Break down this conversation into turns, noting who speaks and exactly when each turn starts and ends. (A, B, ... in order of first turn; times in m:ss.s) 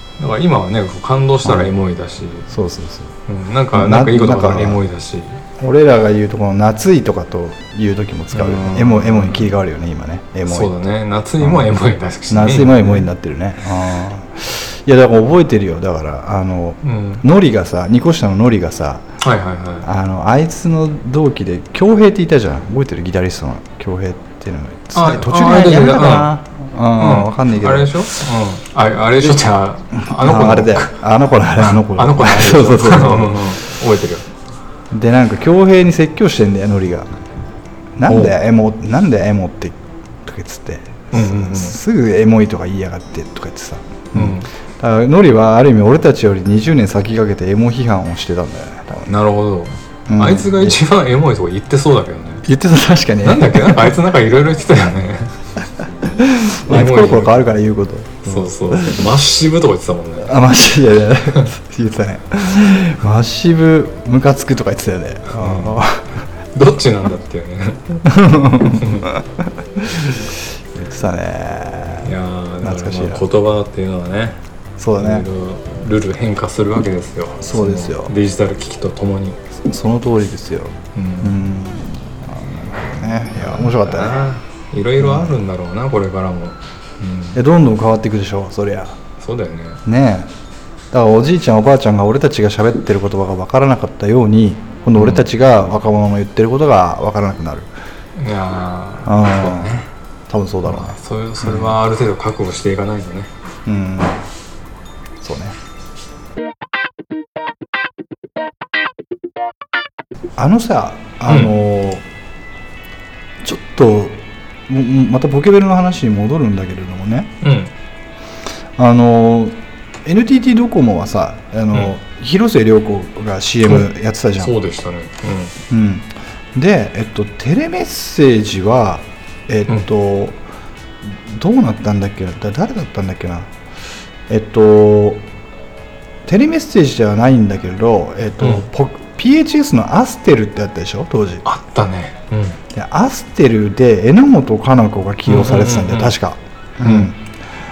0:00.2-0:02.5 A
0:01.4-0:01.7 B
0:02.5-0:03.1 B
0:03.3-0:05.4 A
0:03.7-0:04.8 B
0:05.6-0:10.8 B
0:08.3-0:09.5 A
0:10.5-0:13.1 A
0:11.4-0:19.0 B
0:16.8-0:17.2 A
0:19.2-0:19.9 A
0:19.8-0:28.2 B
0:24.9-0:26.4 A
0:27.0-0:30.9 A
0:30.0-0:33.6 B
0:31.6-0:34.3 A
0:34.9-0:37.1 B
0:38.0-0:49.1 B
0:38.0-0:38.3 A
0:41.1-0:41.8 A
0:44.1-0:44.5 A
0:49.1-0:52.4 A
0:50.1-0:50.8 B
0:52.4-0:54.0 B
0:53.2-0:55.3 A
0:56.0-0:59.1 B
0:56.7-0:57.5 A
0:58.2-1:00.3 A
1:00.2-1:06.2 B
1:05.3-1:05.8 A
1:06.5-1:08.0 A
1:08.0-1:13.2 B
1:08.6-1:09.1 A
1:12.0-1:14.4 A
1:14.8-1:15.3 B
1:14.9-1:19.4 A
1:17.4-1:18.1 B
1:19.6-1:24.2 B
1:20.9-1:21.4 A
1:23.4-1:27.4 A
1:25.0-1:25.4 B
1:27.3-1:29.0 B
1:29.2-1:29.8 A
1:29.8-1:30.3 B
1:30.9-1:37.7 B
1:35.0-1:35.2 A
1:38.2-1:39.9 A
1:39.0-1:39.7 B
1:40.3-1:41.8 B
1:40.6-1:43.3 A
1:43.6-1:44.2 B
1:45.2-1:45.6 B
1:50.4-1:52.0 B
1:51.3-1:51.6 A
1:53.4-1:57.3 B
1:57.4-1:57.7 A
1:58.8-2:04.5 B
2:04.4-2:05.5 A
2:05.7-2:10.4 B
2:11.0-2:13.5 B
2:14.3-2:15.2 B
2:16.2-2:21.4 B
2:21.4-2:22.6 A
2:22.7-2:27.2 B
2:25.2-2:26.2 A
2:26.8-2:27.1 A